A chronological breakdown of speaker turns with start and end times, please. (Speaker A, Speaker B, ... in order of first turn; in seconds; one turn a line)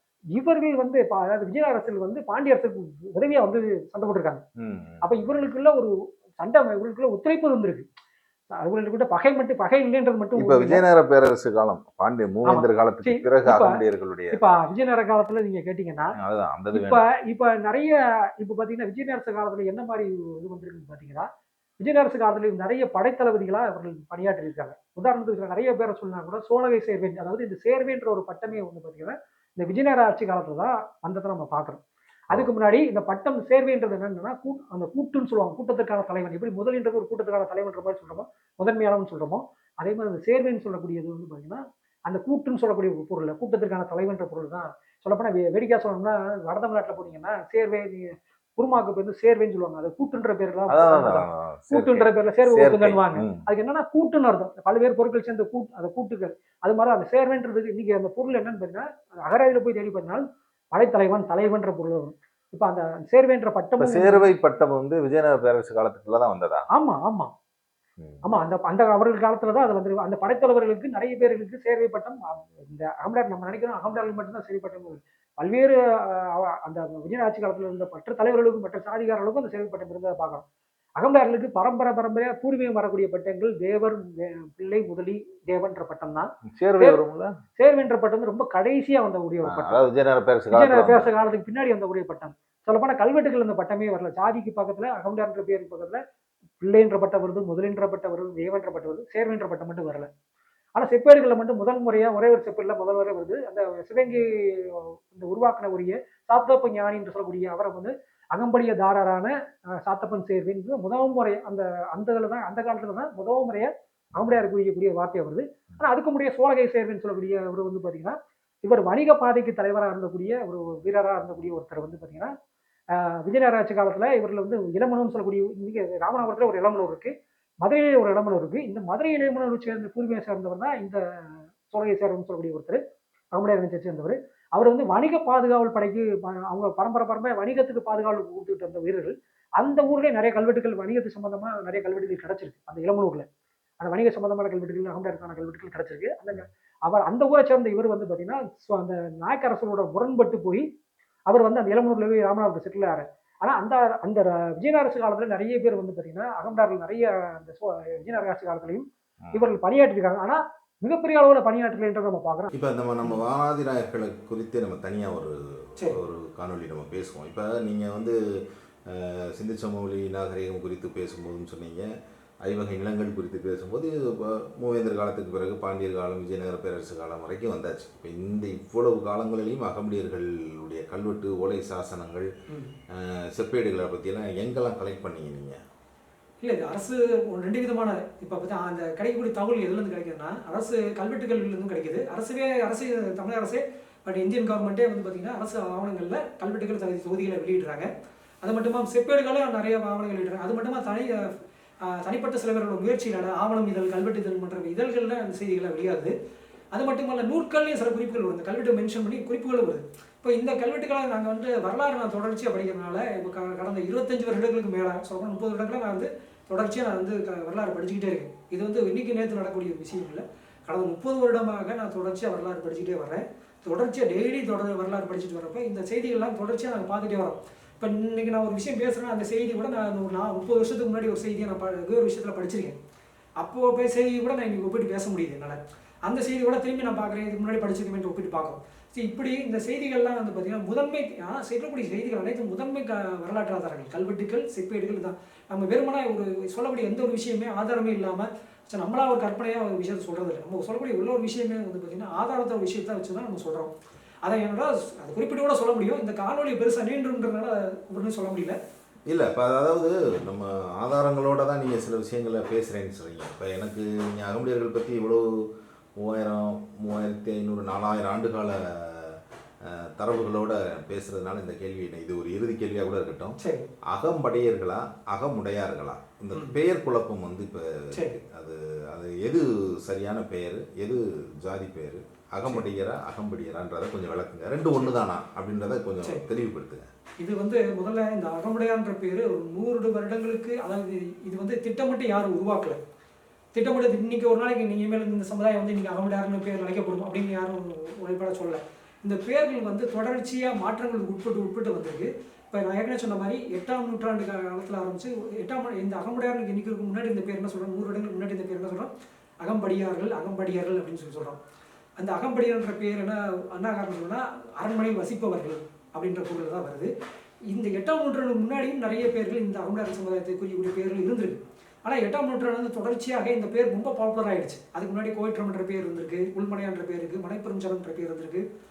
Speaker A: 0.3-4.4
Speaker B: 4.6-5.0
Speaker A: 5.0-7.9
Speaker A: 8.6-10.8
Speaker B: 10.4-14.4
Speaker A: 12.5-13.8
Speaker A: 14.3-16.1
Speaker B: 16.2-17.0
Speaker A: 16.7-21.3
Speaker A: 21.8-64.2
Speaker B: 50.7-53.5
Speaker B: 63.8-66.7
Speaker A: 66.7-67.3
Speaker A: 68.2-80.5
Speaker A: 81.0-87.0
Speaker B: 86.5-87.4
Speaker A: 87.6-89.8
Speaker B: 89.4-91.1
Speaker A: 90.5-96.0
Speaker A: 96.6-100.1
Speaker A: 100.8-122.3
Speaker A: 122.9-127.1
Speaker A: 127.6-131.0
Speaker A: 131.7-132.8
Speaker A: 133.3-143.3
Speaker A: 143.8-150.7
Speaker A: 151.3-162.5
Speaker B: 162.5-168.2
Speaker B: 168.9-171.9
Speaker B: 172.4-182.3
Speaker C: 182.5-182.8
Speaker B: 182.9-185.6
Speaker C: 186.4-197.9
Speaker C: 198.4-201.3
Speaker C: 201.8-206.1
Speaker C: 206.7-232.8
Speaker C: 233.4-253.7
Speaker C: 254.2-258.6
Speaker B: 259.1-265.4
Speaker B: 266.0-273.4
Speaker C: 273.4-273.7
Speaker B: 273.9-286.9
Speaker C: 287.2-292.8
Speaker C: 293.5-311.4
Speaker C: 312.0-316.9
Speaker C: 317.5-328.4